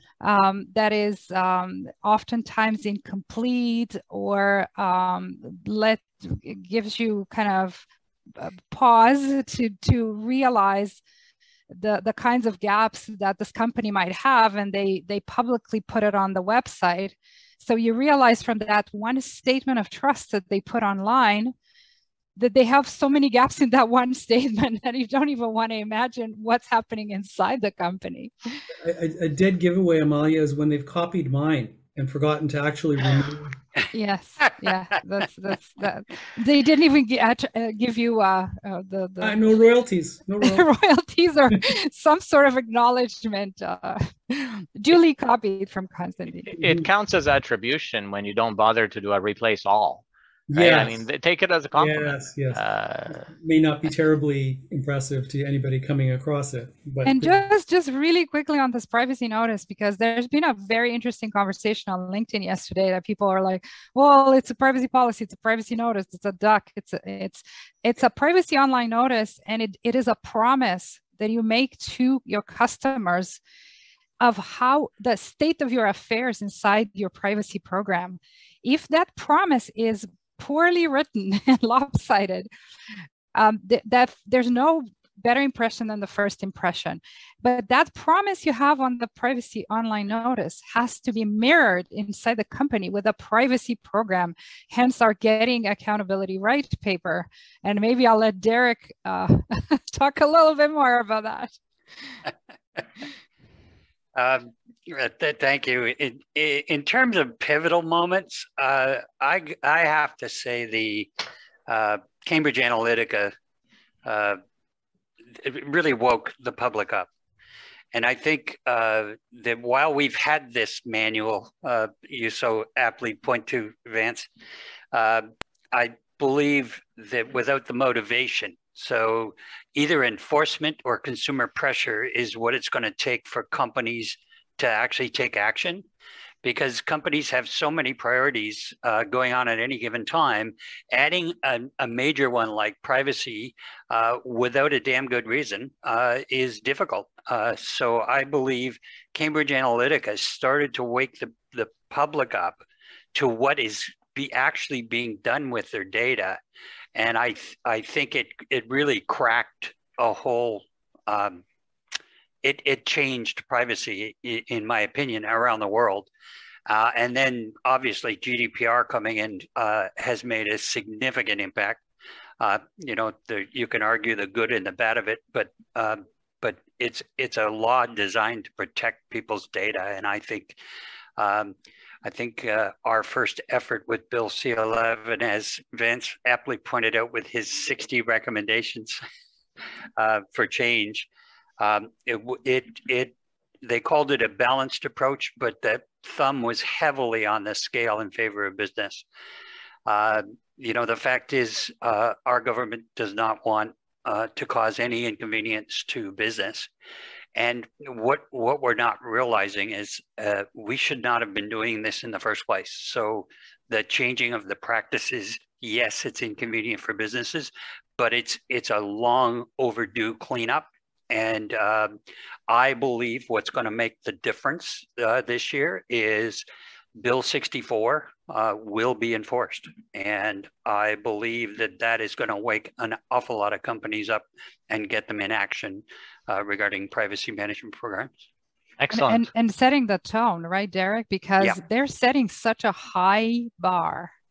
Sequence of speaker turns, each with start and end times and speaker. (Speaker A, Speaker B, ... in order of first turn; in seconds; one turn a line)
Speaker A: 0.2-7.8
Speaker A: 8.4-11.0
Speaker A: 11.7-21.5
Speaker A: 22.4-28.6
Speaker B: 28.7-33.6
Speaker A: 33.9-39.4
Speaker B: 39.2-40.6
Speaker A: 40.4-46.5
Speaker C: 46.6-53.2
Speaker B: 46.6-46.8
Speaker B: 50.5-51.0
Speaker B: 51.8-57.5
Speaker A: 57.0-73.4
Speaker A: 74.2-82.5
Speaker A: 83.3-101.5
Speaker D: 104.1-111.1
Speaker D: 111.7-113.3
Speaker D: 114.0-114.4
Speaker D: 115.3-117.1
Speaker D: 117.9-124.2
Speaker D: 124.9-135.8
Speaker D: 136.4-152.6
Speaker D: 153.1-156.4
Speaker D: 156.9-161.4
Speaker D: 162.4-166.1
Speaker D: 166.7-171.8
Speaker D: 172.4-180.6
Speaker D: 181.2-189.0
Speaker D: 190.0-191.1
Speaker D: 191.6-199.0
Speaker D: 199.8-206.7
Speaker D: 207.3-222.0
Speaker D: 222.5-226.4
Speaker D: 227.0-238.1
Speaker C: 238.8-239.3
Speaker A: 238.9-244.1